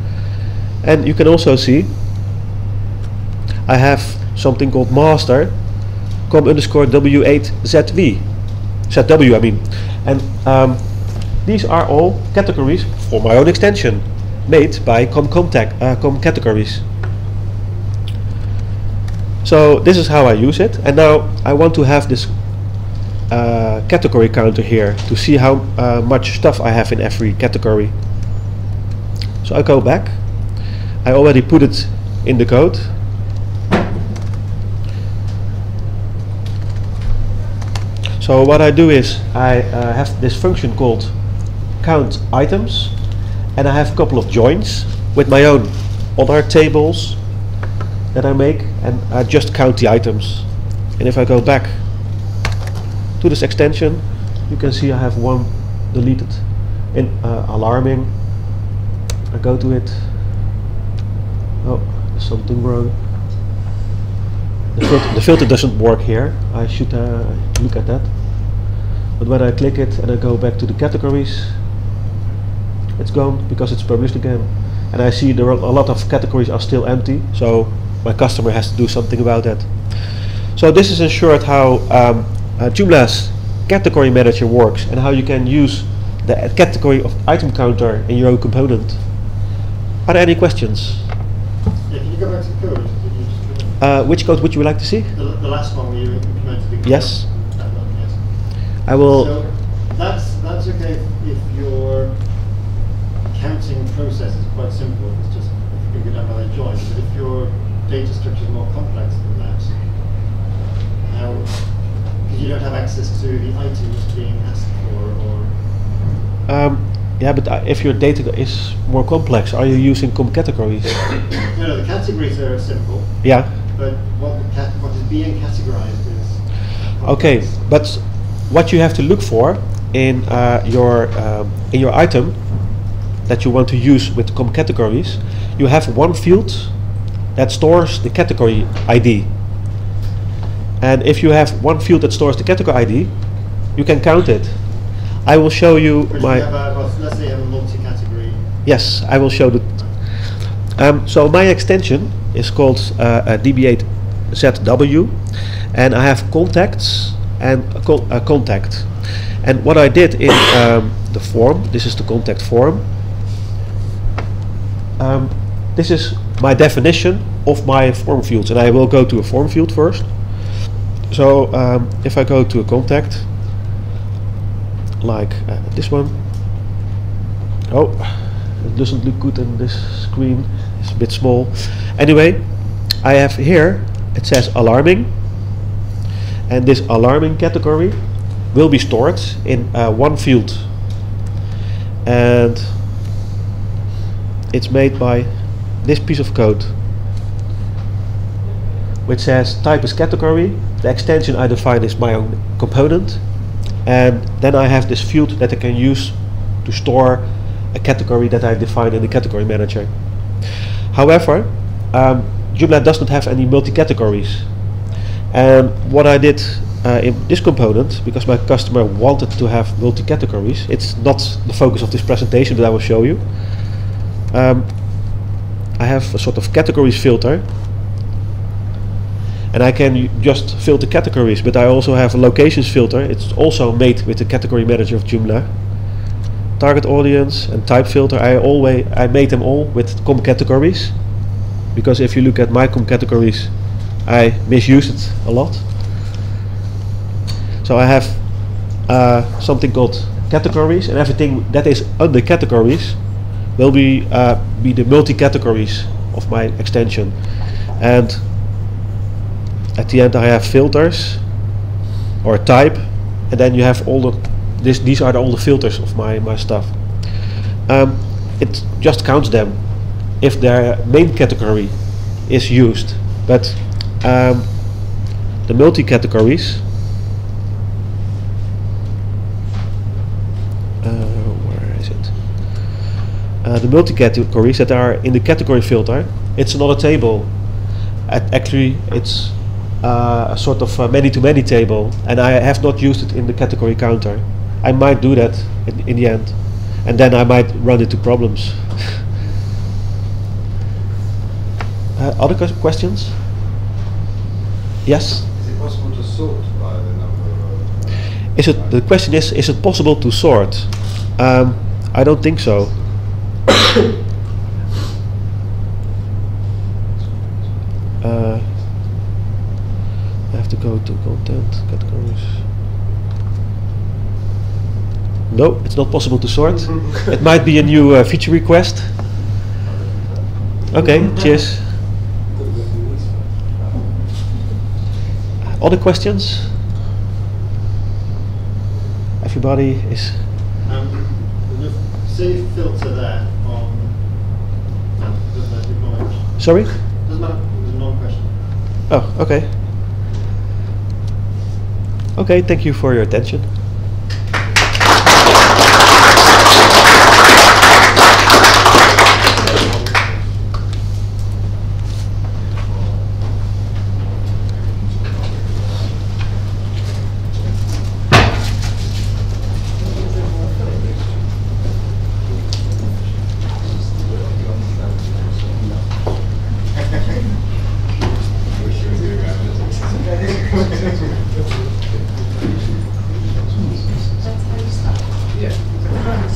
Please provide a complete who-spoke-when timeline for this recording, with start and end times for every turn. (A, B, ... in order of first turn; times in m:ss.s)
0:00.8-0:01.9 A
0:03.7-0:05.7 A
0:06.3-0:08.3 A
0:08.8-0:16.8 A
0:19.4-0:22.4 A
0:23.3-0:27.9 A
0:29.4-0:30.2 A
0:31.0-0:32.9 A
0:38.2-0:43.0 A
0:43.6-0:47.2 A
0:48.1-0:51.9 A
0:53.2-0:58.1 A
0:59.3-1:00.2 A
1:01.6-1:02.9 A
1:04.7-1:08.6 A
1:09.2-1:11.6 A
1:13.0-1:29.3 A
1:30.0-1:31.1 A
1:31.8-1:34.0 B
1:33.8-1:35.1 A
1:35.1-1:42.6 B
1:36.8-1:37.2 A
1:38.8-1:39.4 A
1:43.3-1:50.1 B
1:51.0-1:55.6 B
1:56.5-2:01.2 A
2:01.5-2:07.7 B
2:03.2-2:03.5 A
2:07.0-2:19.3 A
2:20.8-2:26.4 A
2:26.1-2:28.6 B
2:28.6-2:42.8 A
2:45.0-2:53.3 A
2:55.0-2:56.2 A
2:57.7-3:05.1 A
3:06.5-3:10.8 A
3:12.0-3:12.8 A
3:14.5-3:16.8 A
3:19.0-3:30.1 A
3:30.9-3:34.5 A
3:35.3-3:47.4 A
3:49.5-3:55.5 A
3:56.6-4:01.0 A
4:01.7-4:05.9 A
4:07.6-4:18.2 A
4:19.8-4:21.3 A
4:22.2-4:36.6 A
4:40.8-4:42.6 A
4:43.4-4:47.5 A
4:48.0-4:59.0 A
5:02.0-5:03.2 A
5:04.8-5:05.2 A
5:05.3-5:08.8 C
5:08.3-5:12.8 A
5:17.0-5:17.5 C
5:18.0-5:18.5 A
5:20.3-5:22.4 A
5:25.3-5:29.0 A
5:29.6-5:31.1 C
5:30.7-5:31.8 A
5:32.3-5:33.0 C
5:35.6-5:36.5 A
5:39.2-5:40.2 A
5:40.6-5:48.6 B
5:46.4-5:46.7 A
5:48.9-5:49.6 A
5:52.2-5:53.5 A
6:13.9-6:16.0 C
6:18.4-6:20.8 C
6:23.5-6:23.8 C